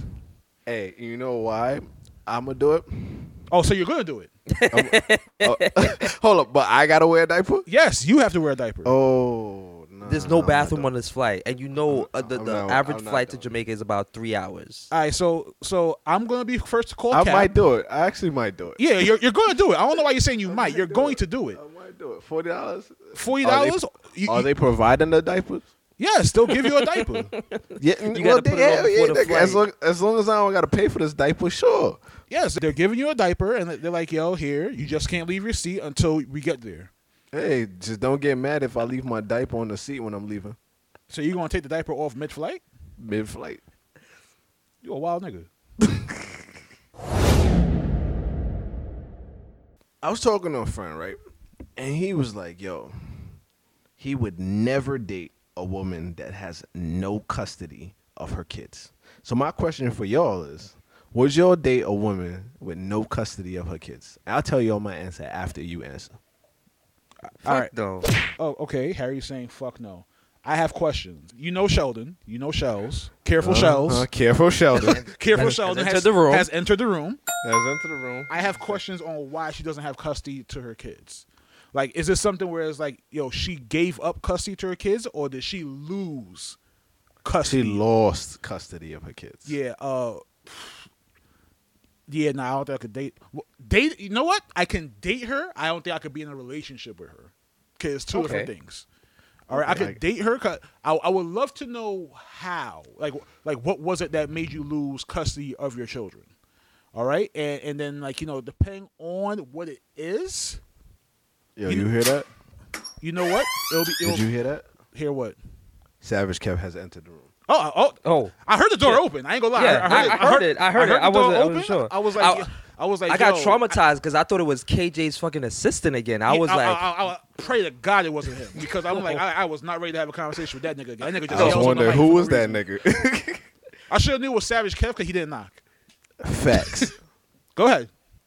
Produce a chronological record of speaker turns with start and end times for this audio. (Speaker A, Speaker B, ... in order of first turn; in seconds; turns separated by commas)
Speaker A: 0.7-3.5, Speaker B: 3.5-4.3, Speaker C: 4.5-6.1, Speaker A: 4.7-7.7, Speaker B: 7.7-8.9, Speaker A: 8.8-10.9, Speaker C: 10.1-14.9, Speaker A: 11.8-13.5, Speaker B: 14.9-17.5, Speaker A: 17.1-18.8, Speaker B: 18.8-21.6, Speaker A: 20.5-25.7, Speaker B: 23.1-24.5, Speaker B: 26.0-27.3, Speaker C: 26.5-29.6, Speaker A: 27.8-32.0, Speaker B: 32.3-36.9, Speaker A: 37.3-40.6, Speaker B: 41.1-42.6, Speaker A: 43.0-43.6, Speaker B: 44.8-45.5, Speaker A: 45.9-46.2, Speaker A: 50.0-51.2, Speaker A: 51.8-53.4, Speaker A: 54.0-66.2, Speaker B: 67.4-67.7, Speaker C: 67.5-68.2, Speaker B: 68.3-74.1, Speaker A: 73.4-75.0, Speaker C: 74.8-76.5, Speaker B: 75.1-77.2, Speaker A: 77.4-78.8, Speaker B: 78.3-86.6, Speaker B: 87.2-87.8, Speaker A: 87.4-89.6, Speaker B: 89.5-90.9, Speaker B: 92.1-98.9, Speaker C: 98.1-98.5, Speaker B: 99.5-106.3, Speaker A: 99.5-100.0, Speaker B: 106.9-110.6, Speaker A: 111.6-112.3, Speaker B: 111.7-111.9, Speaker B: 113.0-114.3, Speaker A: 114.0-114.7, Speaker B: 114.9-115.4, Speaker A: 116.0-117.3, Speaker B: 117.5-123.8, Speaker C: 118.0-122.5, Speaker C: 123.1-126.9, Speaker B: 126.3-132.6, Speaker C: 131.3-132.0, Speaker A: 131.3-133.5, Speaker B: 133.9-135.6, Speaker A: 136.2-136.9, Speaker B: 137.6-137.9